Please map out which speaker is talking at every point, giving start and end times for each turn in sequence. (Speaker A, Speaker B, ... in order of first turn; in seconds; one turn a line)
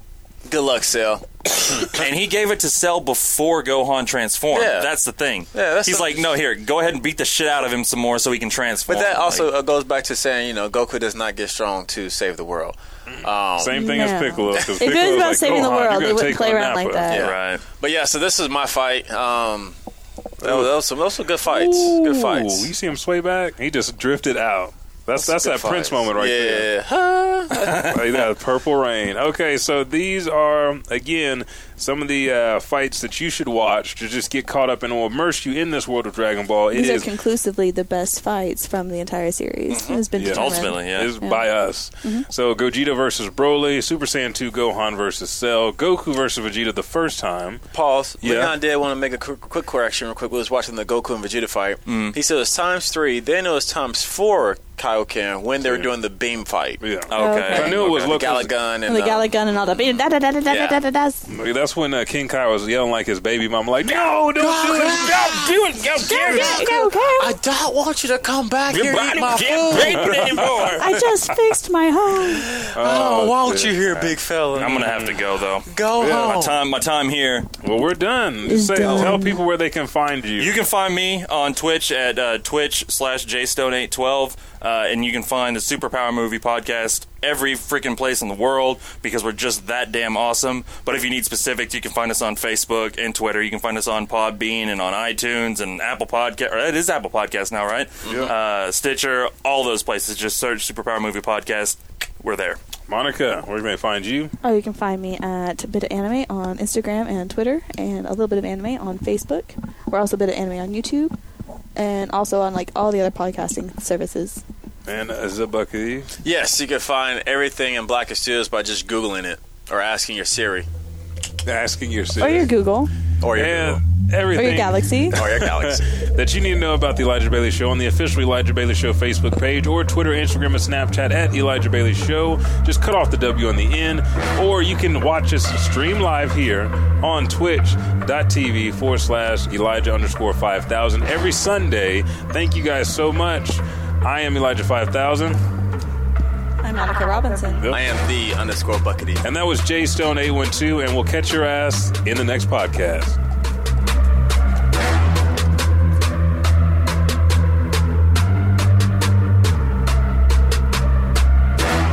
Speaker A: 0.5-1.9
Speaker B: 1.8-9.5
Speaker A: 4.5-4.9
Speaker A: 5.5-6.3
Speaker A: 8.9-14.0
Speaker C: 13.1-17.1
Speaker D: 13.7-17.3
Speaker A: 14.5-14.9
Speaker A: 17.1-19.8
Speaker B: 17.1-17.6
Speaker C: 20.4-20.7
Speaker A: 20.4-22.7
Speaker C: 21.4-26.7
Speaker A: 25.2-27.8
Speaker C: 27.5-37.1
Speaker B: 27.6-28.2
Speaker D: 36.7-41.5
Speaker A: 39.7-40.0
Speaker C: 40.2-47.6
Speaker B: 40.2-41.1
Speaker A: 47.7-56.8
Speaker C: 48.2-48.5
Speaker B: 51.9-52.2
Speaker C: 55.6-55.9
Speaker C: 56.8-58.5
Speaker B: 57.1-58.0
Speaker D: 57.1-57.8
Speaker A: 57.5-59.4
Speaker D: 58.9-61.2
Speaker A: 60.5-60.8
Speaker C: 61.3-66.7
Speaker A: 63.9-70.4
Speaker D: 66.0-67.4
Speaker B: 68.7-71.0
Speaker C: 69.9-70.6
Speaker D: 70.7-72.5
Speaker A: 72.3-75.1
Speaker C: 72.7-74.0
Speaker B: 73.9-77.5
Speaker C: 74.6-75.2
Speaker A: 75.7-76.6
Speaker C: 76.0-76.4
Speaker C: 77.6-80.6
Speaker D: 78.5-79.4
Speaker B: 80.4-102.6
Speaker A: 98.0-98.3
Speaker C: 98.1-98.3
Speaker C: 102.9-104.3
Speaker D: 104.4-111.1
Speaker D: 111.8-114.4
Speaker C: 114.8-116.1
Speaker A: 116.2-120.7
Speaker C: 121.4-122.5
Speaker D: 122.2-122.9
Speaker A: 123.2-123.8
Speaker C: 123.3-145.4
Speaker D: 124.3-125.2
Speaker A: 125.1-125.8
Speaker D: 146.6-147.7
Speaker C: 147.6-147.8
Speaker A: 147.7-149.2
Speaker C: 149.2-153.2